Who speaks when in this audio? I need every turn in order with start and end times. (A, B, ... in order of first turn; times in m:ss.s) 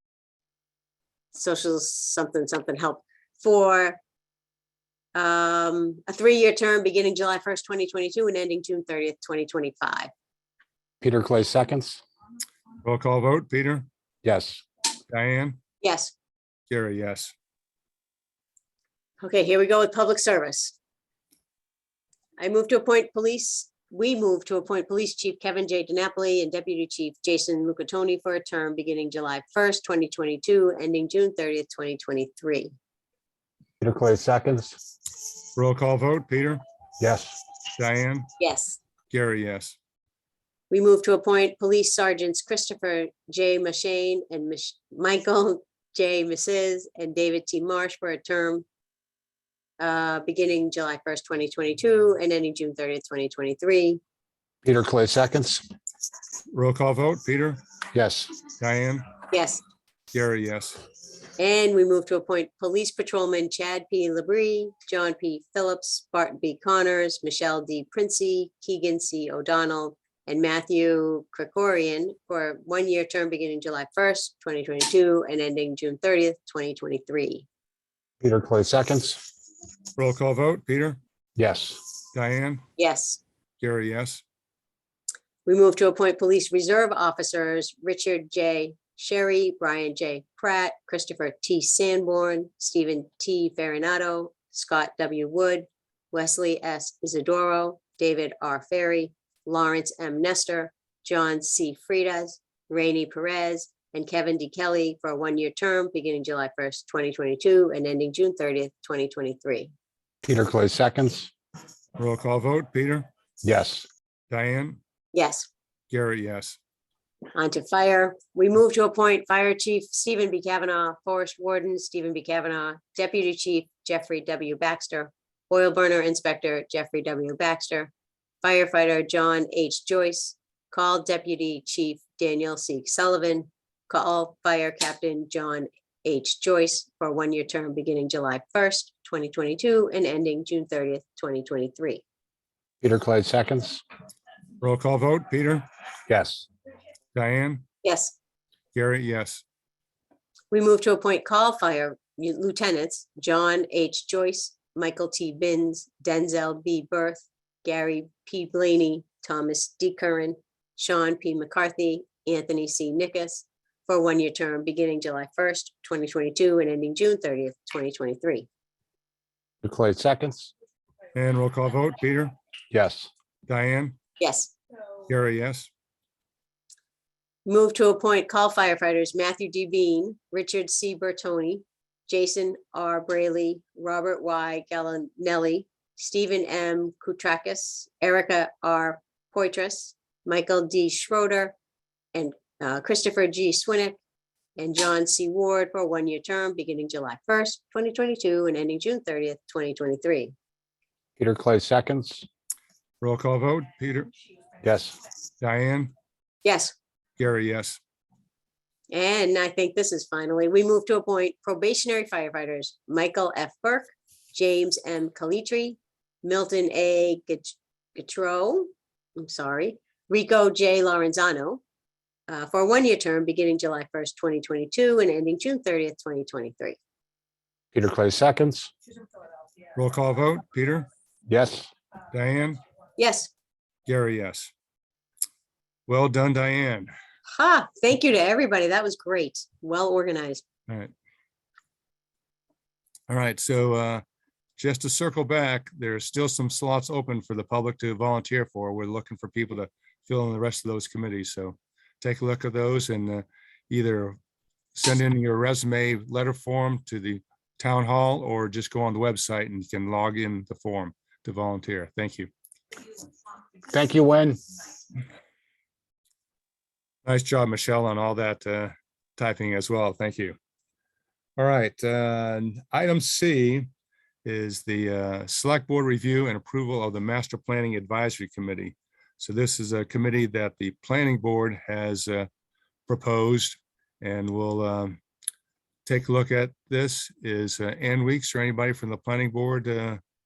0:01.3-0:04.0 A
0:05.1-0:10.1 A
0:11.0-0:12.0 B
0:12.8-0:13.9 C
0:14.2-0:14.6 B
0:15.1-0:15.6 C
0:15.8-0:16.1 A
0:16.7-0:17.3 C
0:19.2-0:20.7 A
0:22.4-0:32.7 A
0:33.8-0:34.8 B
0:35.5-0:36.6 C
0:37.0-0:37.4 B
0:37.7-0:38.3 C
0:38.4-0:38.8 A
0:39.1-0:39.8 C
0:40.7-0:48.6 A
0:49.8-0:54.0 A
0:54.6-0:55.6 B
0:56.5-0:57.6 C
0:57.9-0:58.3 B
0:58.6-0:59.1 C
0:59.3-0:59.6 A
1:00.1-1:00.8 C
1:01.4-1:17.4 A
1:18.2-1:19.2 B
1:20.0-1:21.0 C
1:21.4-1:21.8 B
1:22.1-1:22.6 C
1:22.8-1:23.2 A
1:23.6-1:24.2 C
1:25.4-1:49.7 A
1:50.2-1:51.3 B
1:52.0-1:53.1 C
1:53.4-1:53.8 B
1:54.3-1:54.8 C
1:55.1-1:55.5 A
1:55.9-1:56.6 C
1:57.3-2:07.9 A
2:08.4-2:22.0 A
2:22.8-2:23.8 B
2:24.6-2:25.6 C
2:26.1-2:26.4 B
2:27.1-2:27.6 C
2:27.8-2:28.2 A
2:28.7-2:29.4 C
2:30.5-2:48.5 A
2:49.6-2:50.5 B
2:51.1-2:52.3 C
2:52.7-2:53.1 B
2:53.5-2:54.0 C
2:54.2-2:54.5 A
2:55.1-2:55.7 C
2:57.4-3:11.5 A
3:12.1-3:14.0 A
3:14.6-3:20.3 A
3:21.2-3:22.2 B
3:23.0-3:24.1 C
3:24.6-3:24.9 B
3:25.4-3:25.9 C
3:26.4-3:26.7 A
3:27.2-3:27.8 C
3:28.9-3:41.6 A
3:42.3-3:46.8 A
3:47.7-3:48.7 B
3:49.7-3:50.9 C
3:51.3-3:51.7 B
3:52.1-3:52.6 C
3:53.0-3:53.3 A
3:53.8-3:54.5 C
3:55.9-3:56.9 C
3:57.3-4:00.4 A
4:03.1-4:04.0 C
4:04.6-4:14.2 C
4:14.7-4:22.3 C
4:23.6-4:24.4 B
4:27.0-4:30.4 C
4:31.4-4:33.7 C
4:34.2-4:42.3 C
4:42.9-4:45.0 C
4:45.8-4:50.0 C